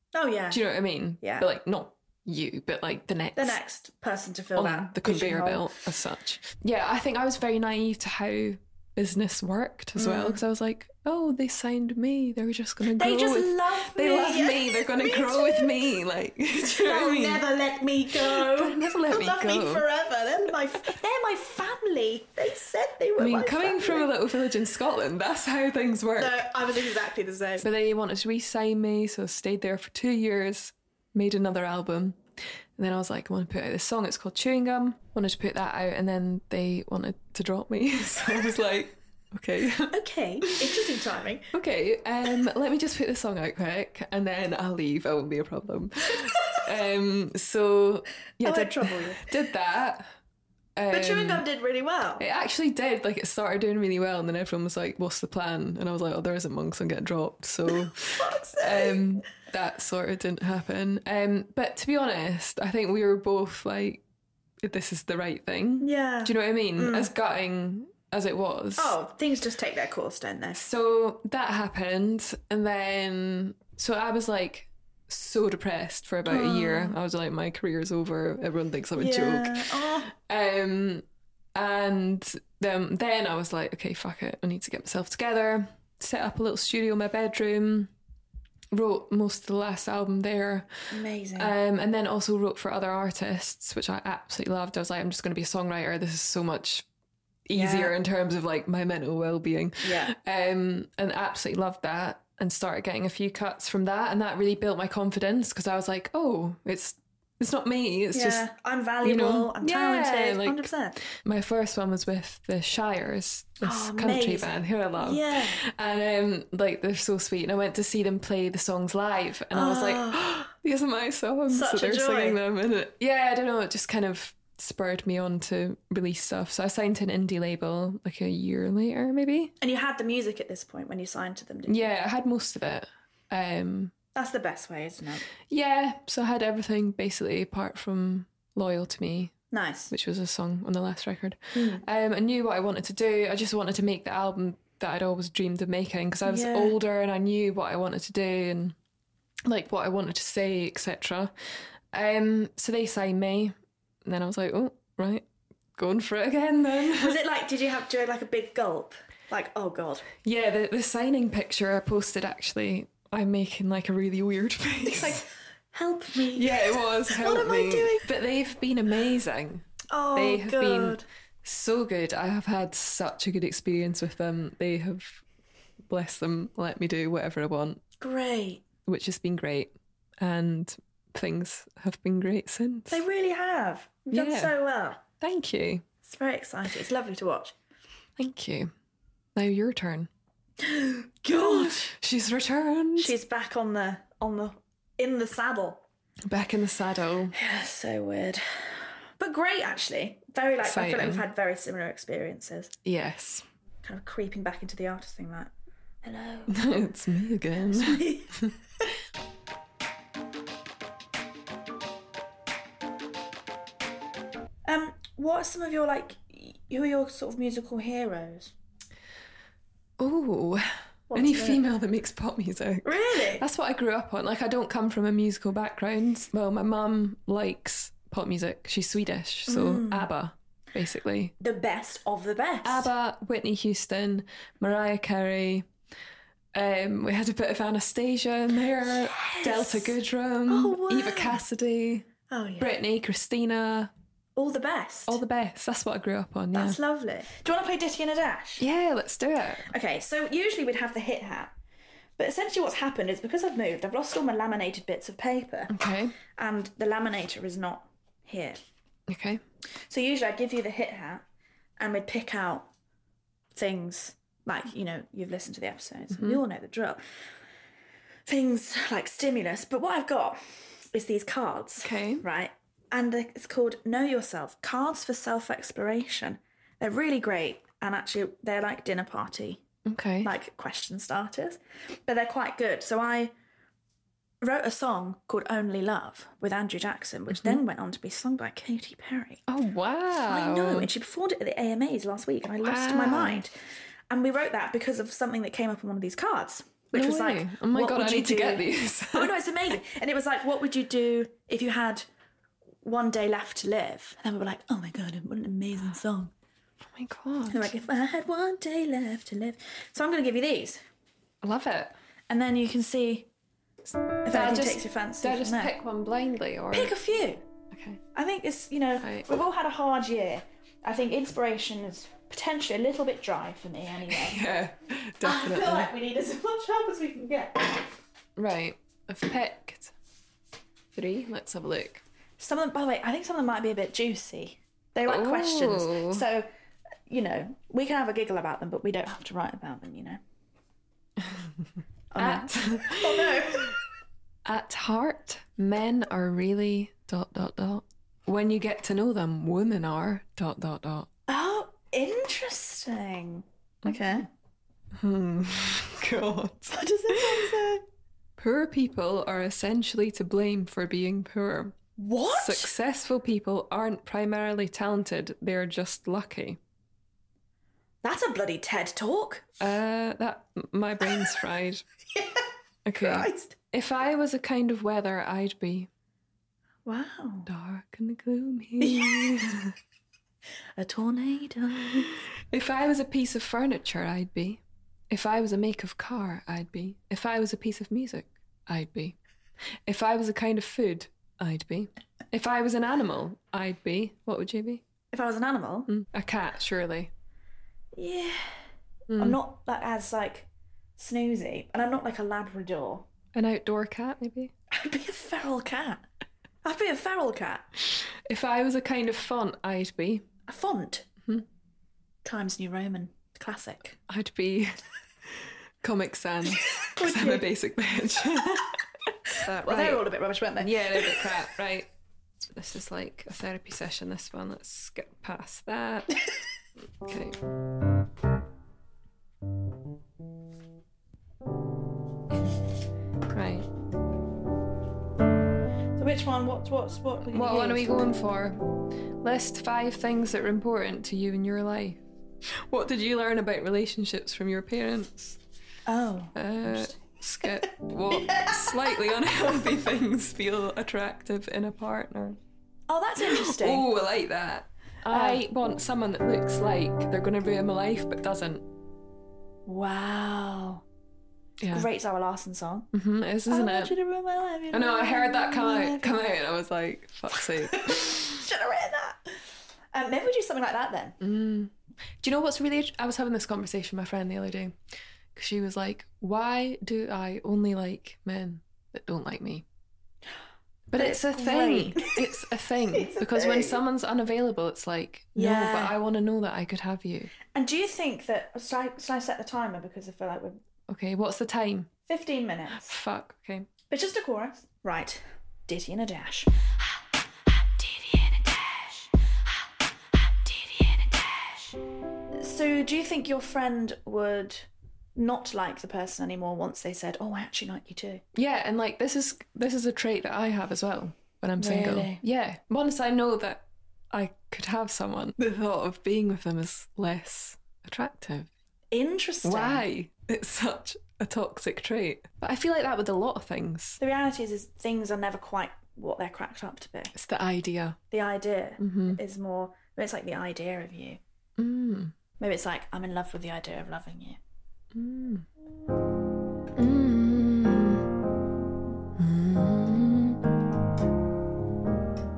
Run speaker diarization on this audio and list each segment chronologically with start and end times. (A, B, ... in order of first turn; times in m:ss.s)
0:00.1-0:00.6 A
0:00.5-0:03.6 B
0:01.2-0:01.5 A
0:03.4-0:05.8 A
0:04.6-0:17.4 B
0:10.0-0:10.4 A
0:13.0-0:16.0 A
0:16.6-0:24.1 A
0:18.1-0:19.9 B
0:23.2-0:26.5 B
0:26.2-0:27.6 A
0:27.6-0:32.2 B
0:32.8-0:41.0 B
0:39.9-0:41.5 A
0:41.5-0:50.0 B
0:48.4-0:49.3 A
0:50.8-0:51.4 B
0:50.9-0:52.2 A
0:52.2-1:04.0 B
0:57.7-0:59.0 A
1:04.6-1:09.0 B
1:05.8-1:07.1 A
1:08.8-1:10.6 A
1:10.6-1:27.9 B
1:16.3-1:17.0 A
1:19.0-1:20.1 A
1:28.7-1:36.9 B
1:30.9-1:31.5 A
1:37.5-1:48.4 B
1:37.5-1:38.0 A
1:39.8-1:40.2 A
1:48.1-1:51.0 A
1:49.0-2:09.5 B
1:53.6-1:55.6 A
1:59.5-2:00.4 A
2:01.5-2:02.4 A
2:09.6-2:11.9 A
2:11.7-2:13.9 B
2:14.2-2:15.3 A
2:15.5-2:19.3 B
2:19.5-2:19.9 A
2:19.9-2:28.8 B
2:21.6-2:21.8 A
2:26.2-2:26.8 A
2:29.5-2:31.3 B
2:31.9-2:37.2 B
2:36.9-2:40.1 A
2:40.2-2:45.2 B
2:44.9-2:48.1 A
2:46.3-2:55.2 B
2:49.9-2:51.0 A
2:55.9-2:57.8 B
2:58.0-2:58.6 A
2:58.8-3:03.0 B
3:02.9-3:05.0 A
3:04.1-3:04.5 B
3:05.2-3:05.8 B
3:06.0-3:07.6 A
3:08.2-3:08.7 B
3:09.4-3:10.1 B
3:10.6-3:11.9 A
3:11.3-3:13.1 B
3:13.0-3:15.8 A
3:16.3-3:17.4 B
3:17.3-3:22.7 A
3:20.6-3:21.3 B
3:22.8-3:23.5 B
3:23.8-3:25.5 A
3:26.0-3:26.8 A
3:26.5-3:28.5 B
3:27.7-3:28.4 A
3:34.7-3:38.5 A
3:40.0-3:51.3 B
3:41.1-3:41.6 A
3:42.8-3:43.4 A
3:49.5-3:50.1 A
3:51.4-3:52.9 A
3:52.6-3:55.7 B
3:56.5-4:02.1 B
3:58.8-4:00.0 A
4:00.5-4:01.4 A
4:02.3-4:02.8 A
4:02.6-4:03.9 B
4:04.4-4:05.2 A
4:05.1-4:06.8 B
4:06.5-4:08.6 A
4:08.6-4:09.7 B
4:09.7-4:11.5 A
4:12.2-4:15.8 A
4:15.7-4:16.2 B
4:16.4-4:18.6 A
4:19.1-4:19.4 B
4:19.9-4:21.2 A
4:21.8-4:22.7 A
4:23.6-4:27.0 A
4:26.1-4:26.4 B
4:28.3-4:30.4 A
4:30.9-4:39.6 A
4:31.8-4:32.2 B
4:39.9-4:40.3 B
4:40.2-4:43.3 A
4:44.4-4:49.4 A
4:47.3-4:47.6 B
4:49.5-4:50.9 B
4:50.3-4:53.5 A
4:52.6-4:53.4 B
4:54.1-5:02.1 A
4:56.9-4:59.3 B
5:02.8-5:06.3 A
5:06.9-5:07.7 B
5:07.5-5:10.8 A
5:11.4-5:11.9 B
5:12.3-5:13.3 A
5:14.2-5:15.7 A
5:14.3-5:17.0 B
5:16.7-5:17.4 A
5:17.7-5:18.0 B
5:18.1-5:24.4 A
5:19.0-5:19.3 B
5:24.1-5:25.9 B
5:25.2-5:27.9 A
5:28.4-5:29.9 B
5:31.0-5:32.0 B
5:32.4-5:36.5 A
5:35.1-5:36.2 B
5:37.1-5:40.2 A
5:41.2-5:41.5 B
5:42.1-5:43.8 A
5:42.2-5:43.8 B
5:44.4-5:51.1 B
5:51.3-5:54.3 A
5:55.0-5:57.6 B
5:56.7-5:57.8 A
5:58.4-6:01.8 B
6:02.0-6:02.7 A
6:02.3-6:06.6 B
6:08.0-6:09.4 A
6:09.6-6:11.8 B
6:12.2-6:12.4 A
6:12.8-6:15.9 B
6:13.0-6:13.6 A
6:16.9-6:17.5 A
6:17.5-6:19.7 B
6:18.8-6:19.5 A
6:20.8-6:22.2 A
6:22.4-6:29.2 B
6:29.9-6:34.8 B
6:35.1-6:35.9 A
6:35.9-6:37.1 B
6:38.0-6:38.5 A
6:39.1-6:39.4 B
6:39.2-6:43.1 A
6:43.3-6:44.5 B
6:44.7-6:46.1 A
6:46.6-6:47.7 A
6:47.9-6:50.2 B
6:50.5-6:51.1 A
6:52.2-6:54.0 A
6:54.1-6:54.8 B
6:55.3-7:00.1 B
6:56.5-6:57.5 A
6:59.4-7:01.3 A
7:00.6-7:01.9 B
7:02.5-7:06.2 B
7:07.0-7:07.4 B
7:13.3-7:13.7 B
7:16.0-7:18.0 A
7:17.3-7:18.6 B
7:19.2-7:25.4 B
7:25.9-7:29.8 A
7:26.4-7:32.4 B
7:32.9-7:33.9 A
7:33.2-7:38.6 B
7:35.1-7:35.4 A
7:39.7-7:40.8 A
7:41.6-7:41.9 B
7:41.7-7:42.9 A
7:42.9-7:44.0 B
7:43.5-7:46.3 A
7:44.7-7:48.5 B
7:47.4-7:49.4 A
7:49.9-7:51.2 A
7:51.2-7:54.8 B
7:55.4-7:59.6 B
8:00.9-8:07.3 B
8:01.0-8:02.3 A
8:02.9-8:03.8 A
8:05.4-8:06.0 A
8:07.5-8:10.6 A
8:10.9-8:11.9 B
8:12.1-8:13.0 A
8:12.8-8:13.7 B
8:13.9-8:16.5 A
8:22.4-8:28.2 A
8:28.4-8:38.5 B
8:31.6-8:32.2 A
8:38.9-8:39.8 A
8:39.4-8:44.0 B
8:44.0-8:47.1 A
8:47.2-8:48.0 B
8:48.1-8:51.2 A
8:48.8-8:49.2 B
8:51.6-8:52.1 B
8:52.4-8:54.4 A
8:54.9-8:55.5 B
8:56.8-8:58.1 B
8:59.2-9:00.4 B